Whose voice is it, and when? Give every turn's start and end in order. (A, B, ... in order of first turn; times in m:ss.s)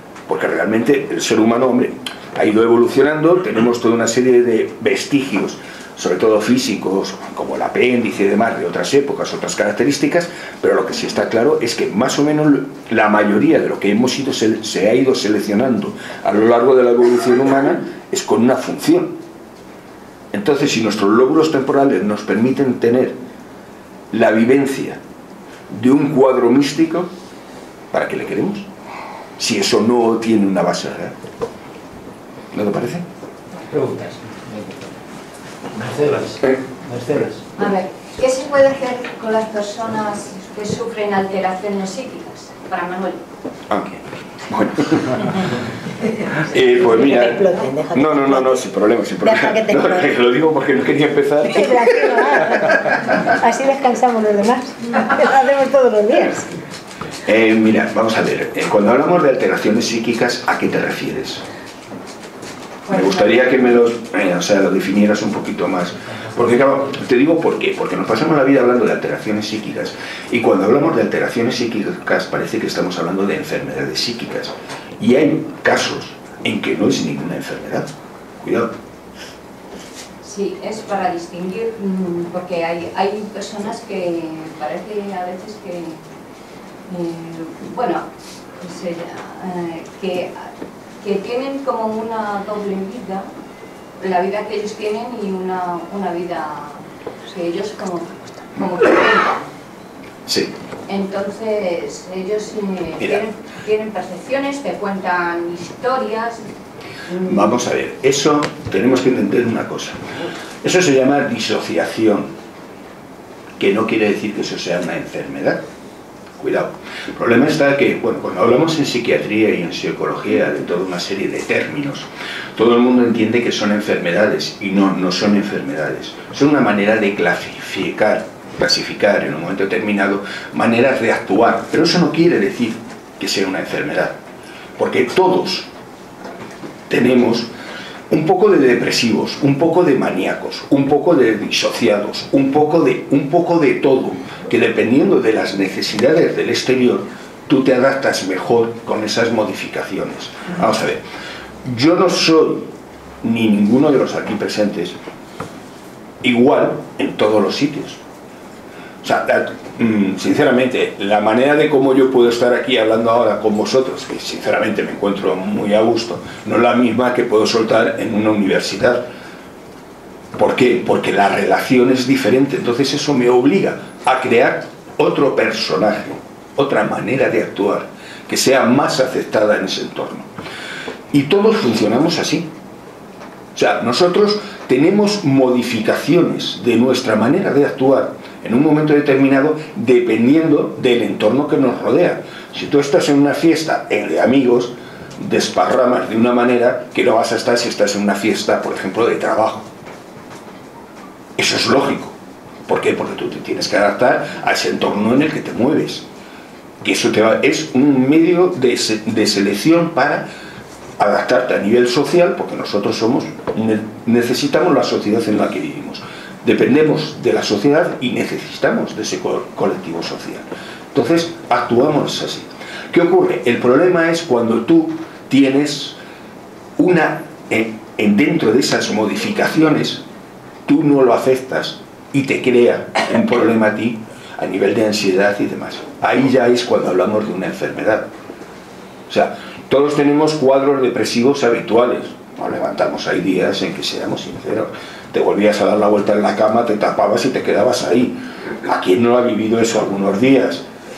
0:00.3-0:19.2 A
0:20.3-0:23.2 A
0:24.1-0:25.0 A
0:25.7-0:27.1 A
0:27.9-0:28.7 A
0:29.4-0:31.1 A
0:32.5-0:33.0 A
0:33.6-0:34.9 B
0:35.8-0:37.4 B
0:37.6-0:43.2 C
0:43.7-0:45.4 A
0:46.4-0:53.0 A
0:46.7-0:48.6 D
0:49.2-0:50.0 D
0:51.5-0:56.5 D
0:57.2-1:01.4 A
1:02.8-1:17.9 A
1:18.4-1:18.7 A
1:20.2-1:26.0 C
1:26.9-1:28.0 C
1:28.6-1:30.5 C
1:31.0-1:33.2 C
1:34.0-1:39.5 C
1:40.3-1:40.5 A
1:40.9-1:46.4 C
1:47.1-1:47.5 C
1:47.2-1:50.0 A
1:50.6-1:52.3 A
1:53.6-1:55.6 A
1:56.4-2:14.2 A
2:14.8-2:15.7 A
2:16.9-2:17.5 A
2:18.1-2:31.0 A
2:31.6-2:32.7 A
2:33.2-2:35.0 A
2:36.2-2:38.0 A
2:39.0-2:49.1 A
2:50.4-3:00.3 A
3:01.1-3:02.5 A
3:03.5-3:19.7 A
3:21.4-3:22.2 A
3:22.7-3:26.0 A
3:26.8-3:30.3 A
3:31.0-3:46.0 A
3:46.8-3:50.0 A
3:50.6-3:58.1 A
3:59.1-4:10.6 A